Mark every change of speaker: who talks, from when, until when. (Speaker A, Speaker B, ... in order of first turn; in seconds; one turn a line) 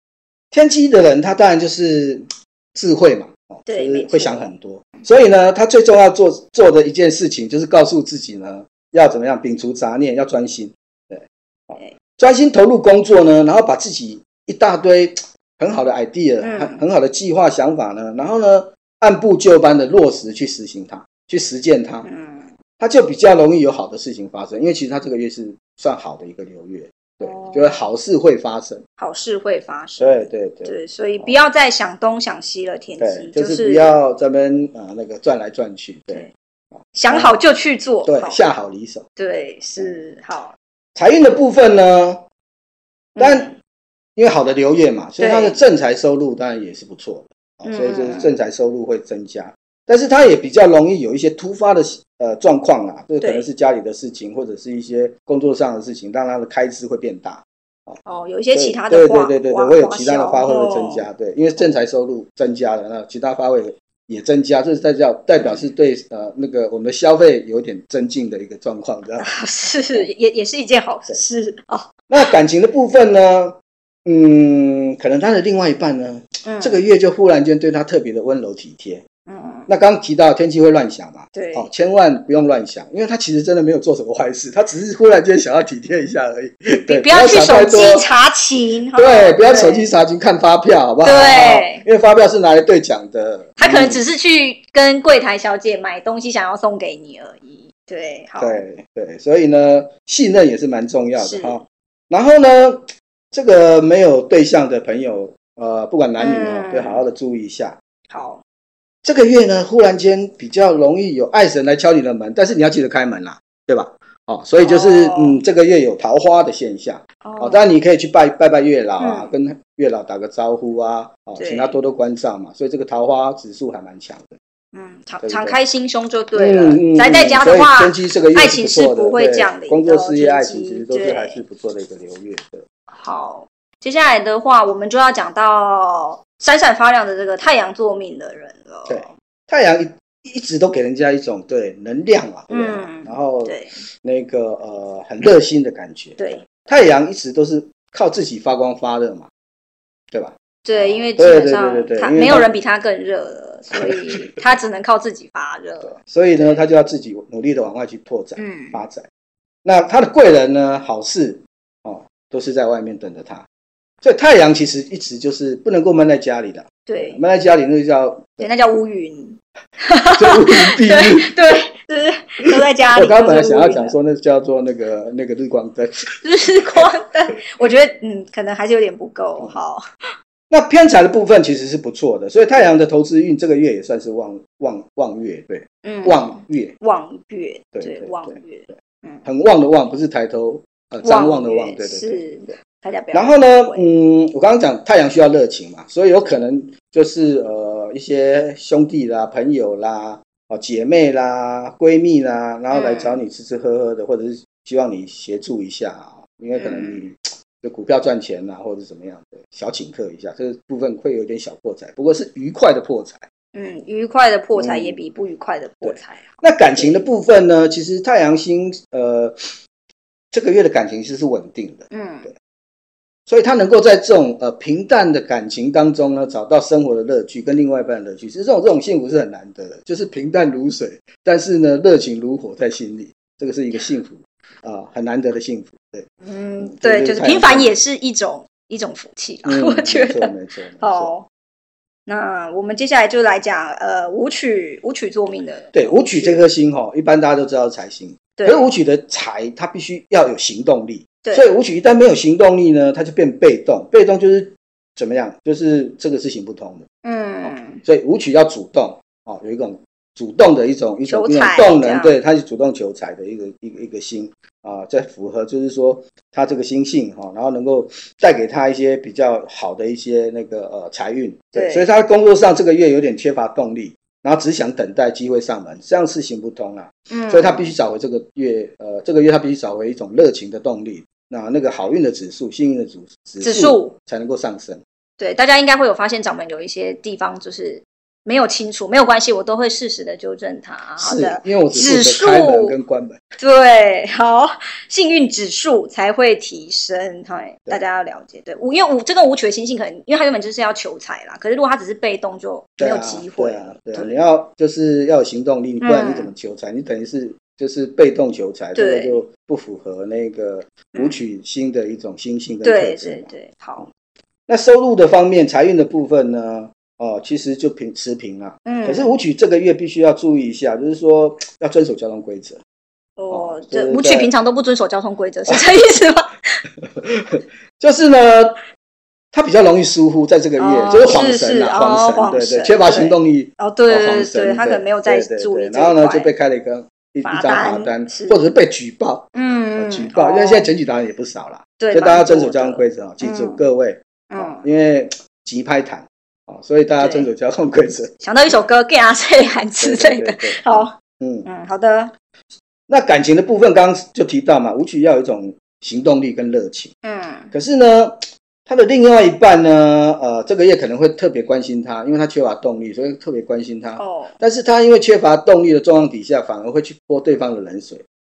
Speaker A: 0.5-22.1
Speaker B: 3.6-4.5
Speaker B: 16.4-16.8
Speaker B: 22.0-22.5
Speaker A: 22.8-28.8
Speaker B: 27.2-27.9
Speaker B: 29.0-33.9
Speaker A: 30.0-31.4
Speaker A: 33.0-36.3
Speaker A: 36.9-37.4
Speaker B: 36.9-38.4
Speaker A: 38.0-39.1
Speaker B: 39.2-40.5
Speaker A: 41.0-42.2
Speaker B: 43.1-43.5
Speaker A: 43.2-43.5
Speaker A: 44.1-58.0
Speaker B: 45.2-45.6
Speaker B: 47.6-48.4
Speaker B: 53.2-53.5
Speaker B: 58.0-61.0
Speaker A: 58.5-69.3
Speaker B: 65.4-65.7
Speaker B: 69.2-71.9
Speaker A: 72.1-79.0
Speaker B: 76.4-76.8
Speaker B: 79.3-79.7
Speaker A: 79.7-88.1
Speaker B: 81.3-81.7
Speaker B: 86.8-89.9
Speaker A: 88.9-94.0
Speaker B: 91.0-91.8
Speaker B: 93.6-98.6
Speaker A: 98.4-107.8
Speaker B: 101.2-101.6
Speaker B: 106.2-107.0
Speaker B: 108.1-108.4
Speaker A: 109.0-124.3
Speaker B: 114.6-115.4
Speaker B: 117.2-117.6
Speaker B: 119.0-119.3
Speaker B: 121.4-121.8
Speaker B: 124.7-131.4
Speaker A: 125.2-125.6
Speaker A: 126.3-132.6
Speaker B: 132.9-139.1
Speaker A: 138.9-149.3
Speaker B: 142.5-143.8
Speaker B: 146.2-146.4
Speaker A: 150.1-152.5
Speaker B: 150.6-156.7
Speaker A: 153.7-154.3
Speaker A: 155.8-159.1
Speaker B: 158.3-158.8
Speaker A: 159.6-163.4
Speaker A: 164.0-168.5
Speaker B: 166.8-167.2
Speaker B: 168.4-173.9
Speaker A: 170.2-171.4
Speaker A: 172.4-176.9
Speaker B: 176.2-179.8
Speaker A: 180.5-186.7
Speaker B: 185.8-189.2
Speaker A: 187.7-188.7
Speaker A: 189.2-192.3
Speaker B: 191.0-193.9
Speaker A: 193.1-213.2
Speaker B: 202.7-203.2
Speaker B: 206.5-207.0
Speaker B: 213.5-217.1
Speaker A: 214.5-215.0
Speaker A: 215.8-219.5
Speaker A: 220.3-222.3
Speaker B: 221.9-222.3
Speaker A: 223.3-237.7
Speaker B: 236.2-241.2
Speaker A: 239.4-241.1
Speaker B: 242.1-246.4
Speaker A: 245.7-256.9
Speaker B: 248.4-248.7
Speaker B: 257.0-257.8
Speaker A: 257.4-284.8
Speaker B: 261.1-262.1
Speaker B: 271.5-271.9
Speaker B: 277.1-277.7
Speaker B: 283.4-283.9
Speaker B: 285.2-292.7
Speaker A: 291.0-293.2
Speaker B: 293.4-304.1
Speaker A: 302.8-313.3
Speaker B: 305.8-306.3
Speaker B: 308.7-309.2
Speaker B: 310.9-311.2
Speaker B: 312.6-313.9
Speaker A: 314.5-322.6
Speaker B: 318.6-319.2
Speaker B: 323.2-326.6
Speaker A: 323.3-324.3
Speaker A: 327.0-328.6
Speaker A: 329.3-348.1
Speaker B: 330.6-336.3
Speaker B: 337.2-338.4
Speaker B: 339.3-340.7
Speaker B: 341.8-343.6
Speaker B: 344.3-344.6
Speaker B: 347.0-347.3
Speaker B: 348.2-350.9
Speaker A: 349.8-351.5
Speaker B: 351.4-352.1
Speaker A: 352.9-356.9
Speaker B: 357.0-357.5
Speaker A: 357.5-368.0
Speaker B: 364.0-364.3